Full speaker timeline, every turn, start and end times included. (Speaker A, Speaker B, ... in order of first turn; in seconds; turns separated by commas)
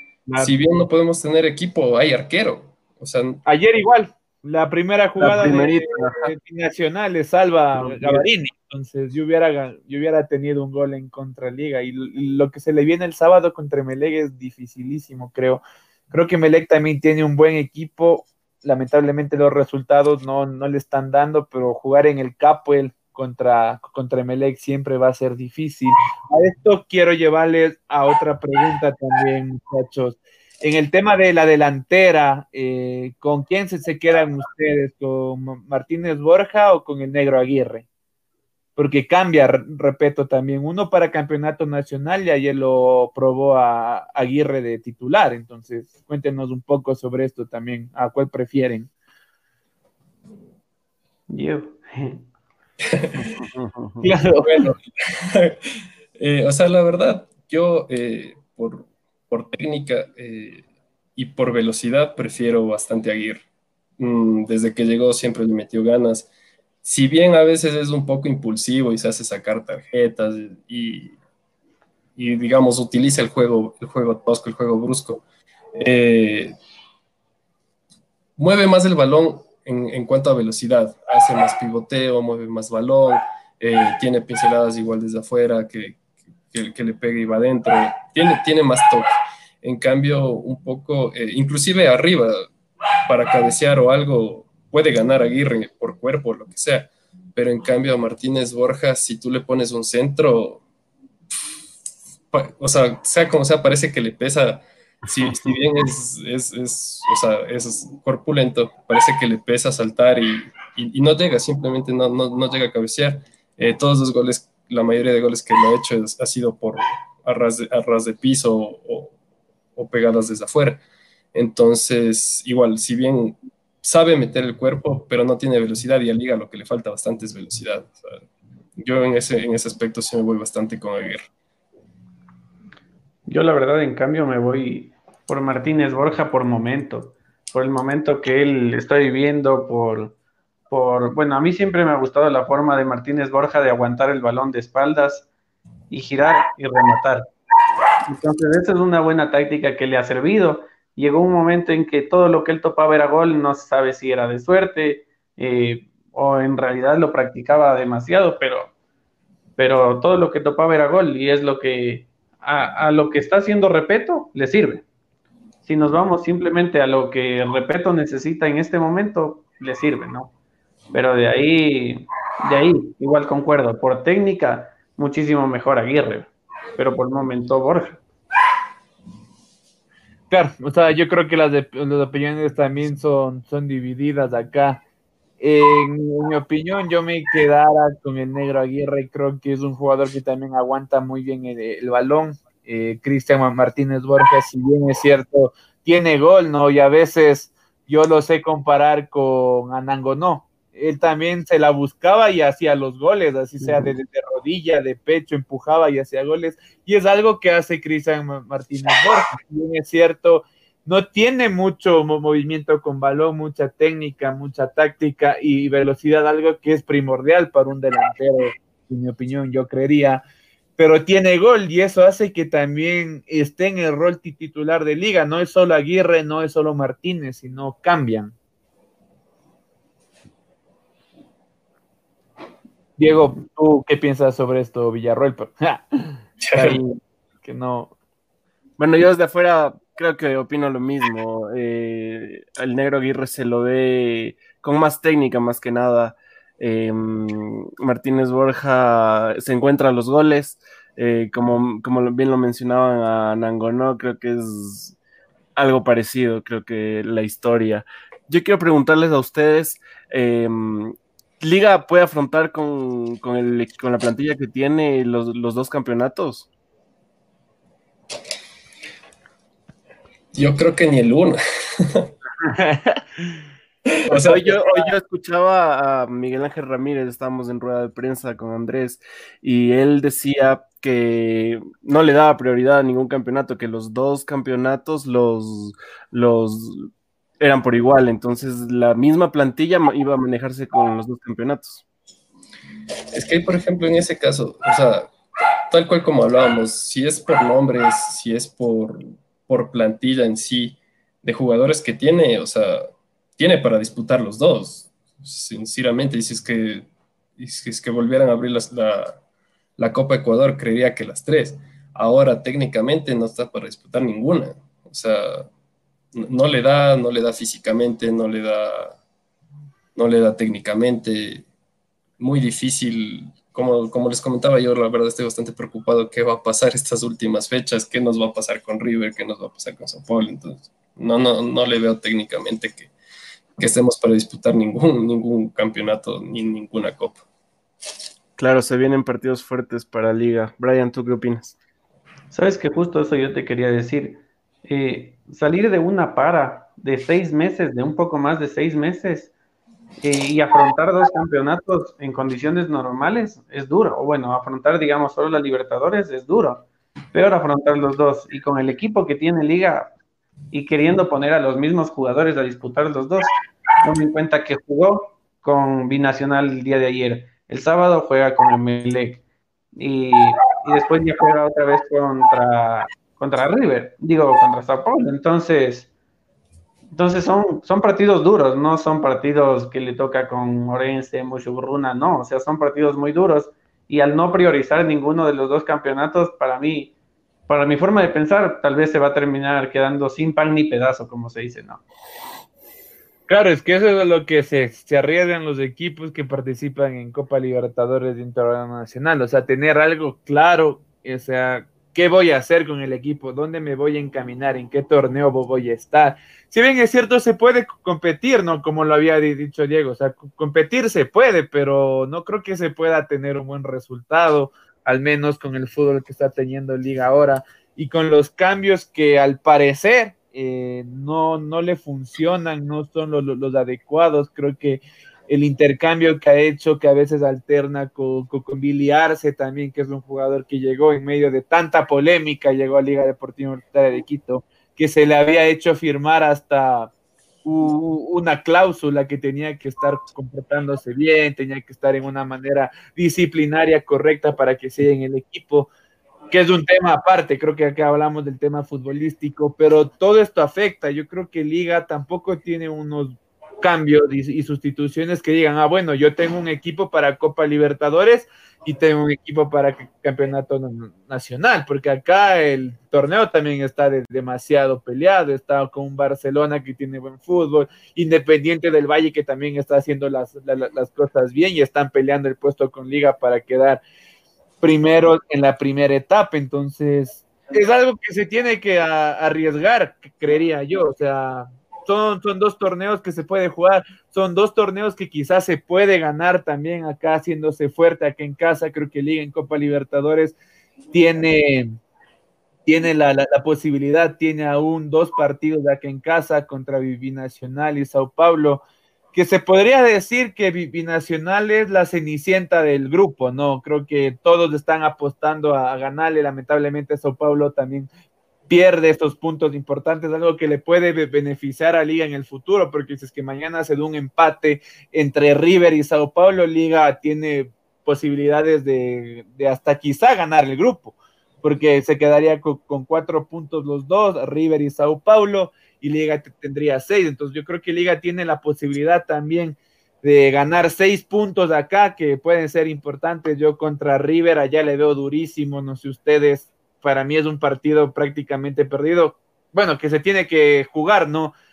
Speaker A: 0.3-0.5, Speaker B: 0.4-3.4, Speaker A: 3.5-37.9, Speaker C: 5.2-6.3, Speaker C: 7.8-8.2, Speaker A: 38.8-48.9, Speaker D: 51.3-52.2, Speaker C: 53.2-54.0, Speaker A: 54.0-54.7, Speaker B: 54.5-55.6, Speaker B: 56.2-60.6, Speaker B: 61.2-63.5, Speaker B: 64.0-66.3, Speaker B: 66.8-71.2, Speaker B: 72.2-75.2, Speaker B: 75.7-76.5, Speaker B: 78.4-86.0, Speaker B: 86.5-89.1, Speaker B: 89.6-92.5, Speaker B: 93.1-100.6, Speaker B: 102.3-119.2, Speaker B: 119.8-120.8, Speaker B: 121.3-128.2, Speaker B: 128.8-131.3, Speaker D: 133.3-140.2, Speaker D: 140.7-145.3, Speaker D: 145.9-147.3, Speaker D: 148.0-158.7, Speaker D: 159.6-164.8, Speaker D: 165.7-170.3, Speaker D: 170.9-178.0, Speaker A: 180.3-184.8, Speaker A: 185.4-220.2, Speaker A: 220.8-228.3, Speaker A: 233.0-237.9, Speaker B: 236.4-236.8, Speaker C: 238.8-255.0, Speaker C: 255.6-266.5, Speaker B: 270.3-272.1, Speaker A: 272.4-273.4, Speaker B: 273.9-274.4, Speaker C: 274.1-291.8, Speaker A: 274.1-274.9, Speaker B: 293.1-295.1, Speaker B: 295.7-309.2, Speaker B: 309.8-315.5, Speaker B: 316.1-319.0, Speaker B: 320.0-321.5, Speaker B: 322.2-332.9, Speaker B: 333.6-337.2, Speaker C: 338.4-341.6, Speaker D: 342.3-349.3, Speaker D: 350.0-359.9, Speaker D: 360.5-369.2, Speaker D: 369.8-375.9, Speaker D: 376.9-386.9, Speaker D: 387.5-391.8, Speaker A: 393.3-436.9, Speaker A: 437.4-445.7, Speaker A: 446.3-473.8, Speaker A: 474.6-490.4, Speaker A: 490.9-491.8, Speaker A: 492.7-498.6, Speaker A: 499.1-507.9, Speaker A: 508.5-541.3